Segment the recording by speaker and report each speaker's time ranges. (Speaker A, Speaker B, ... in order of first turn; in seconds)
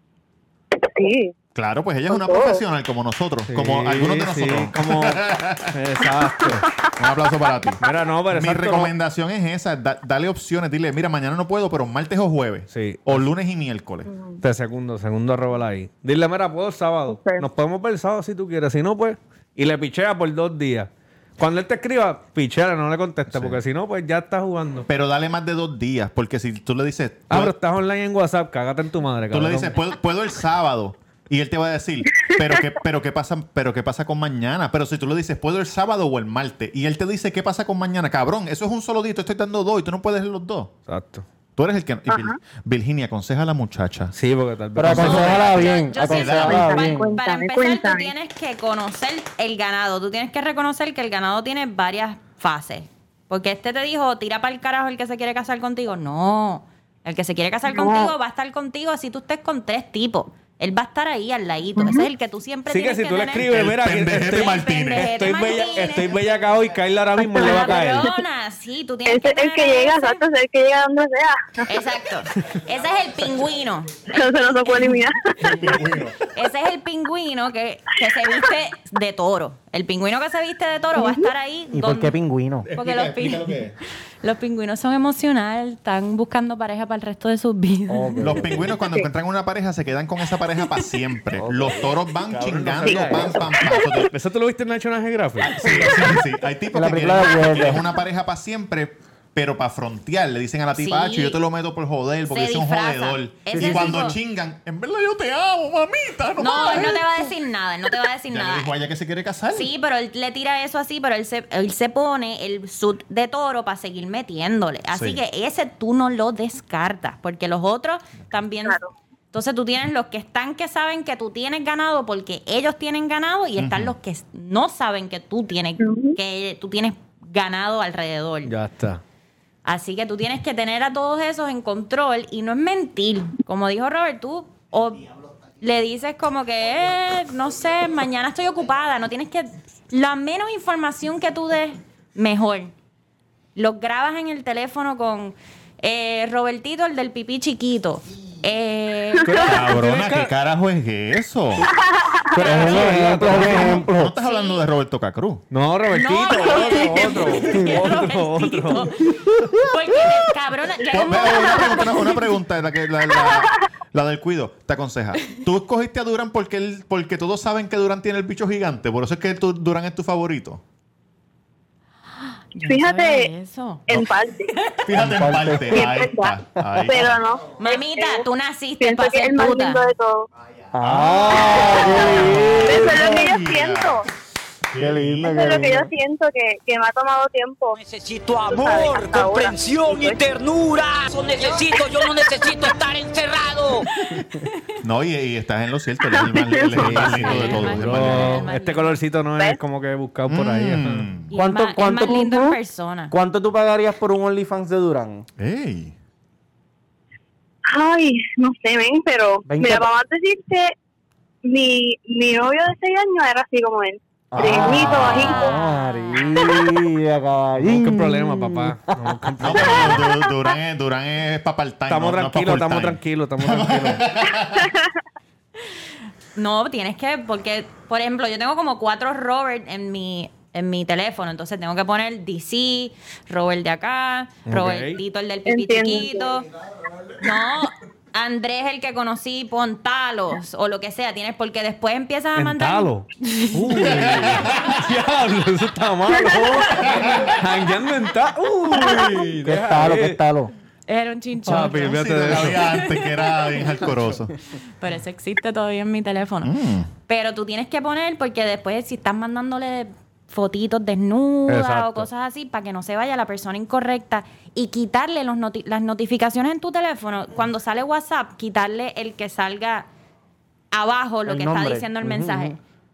Speaker A: 0.7-1.3, 2.1-2.6, 14.1-14.4, 17.1-17.4, 42.1-42.4, 46.5-48.1, 57.7-58.1, 61.8-62.1, 67.2-68.2, 69.1-71.7, 74.0-75.8, 81.0-81.3, 93.6-93.8, 118.6-118.9, 125.8-126.2, 151.9-152.5, 156.3-157.1, 172.6-173.3, 173.9-174.5, 175.7-178.3, 178.8-180.3, 181.4-184.1, 185.3-187.8, 188.5-190.3, 196.0-196.9, 202.1-202.5, 207.7-210.8, 211.4-215.6, 235.5-236.3
Speaker B: 1.6-5.8, 7.0-14.1, 23.3-23.6, 24.9-27.5, 29.3-40.7, 41.6-44.1, 44.9-45.4, 46.0-46.8, 63.4-65.1, 75.4-76.3, 82.7-83.8, 88.2-94.1, 95.4-107.1, 108.3-109.7, 114.9-115.2, 123.6-124.0, 149.3-151.7, 153.0-155.4, 160.9-170.6, 174.8-177.2, 180.9-184.0, 184.7-185.4, 194.8-198.4, 200.3-201.3, 205.4-205.9, 214.4-214.9, 219.4-224.7, 243.8-244.8, 246.8-247.4, 251.6-254.3, 256.4-256.9
Speaker C: 3.5-6.7, 7.8-8.9, 12.7-13.3, 14.4-24.9, 27.3-29.8, 40.9-41.3, 44.1-45.6, 62.7-68.1, 91.6-93.5, 94.1-96.1, 128.4-129.0, 149.2-150.3, 152.4-153.9, 155.5-158.9, 180.8-182.6, 196.7-201.1, 217.6-220.1, 221.9-224.1, 234.5-235.0, 242.3-250.2, 251.4-252.8, 261.5-262.1
Speaker D: 44.8-47.1, 81.7-82.7, 87.9-88.7, 91.4-91.9, 96.7-97.8, 103.5-104.1, 152.3-154.1, 175.0-175.9, 180.7-183.0, 184.8-185.9, 196.8-197.4, 201.3-202.4, 203.1-205.3, 209.5-209.9, 214.3-219.2, 249.4-250.5, 271.3-272.6
Speaker E: 44.9-63.5, 64.3-66.2, 67.4-70.2, 71.7-75.0, 76.3-82.2, 82.7-83.6, 84.2-88.4, 100.8-101.4, 102.3-104.2, 106.4-108.8, 109.5-118.8, 119.3-128.5, 129.7-142.7, 143.6-149.6, 152.5-152.9, 154.2-154.6, 155.9-159.1, 159.6-162.4, 172.5-173.9, 174.6-174.9, 177.6-179.8, 197.0-199.0, 201.3-203.1, 214.7-216.7, 226.4-236.5, 237.2-244.0, 246.2-246.8, 250.9-253.8, 254.8-256.5, 257.1-269.9, 270.7-272.6
Speaker F: 187.8-193.8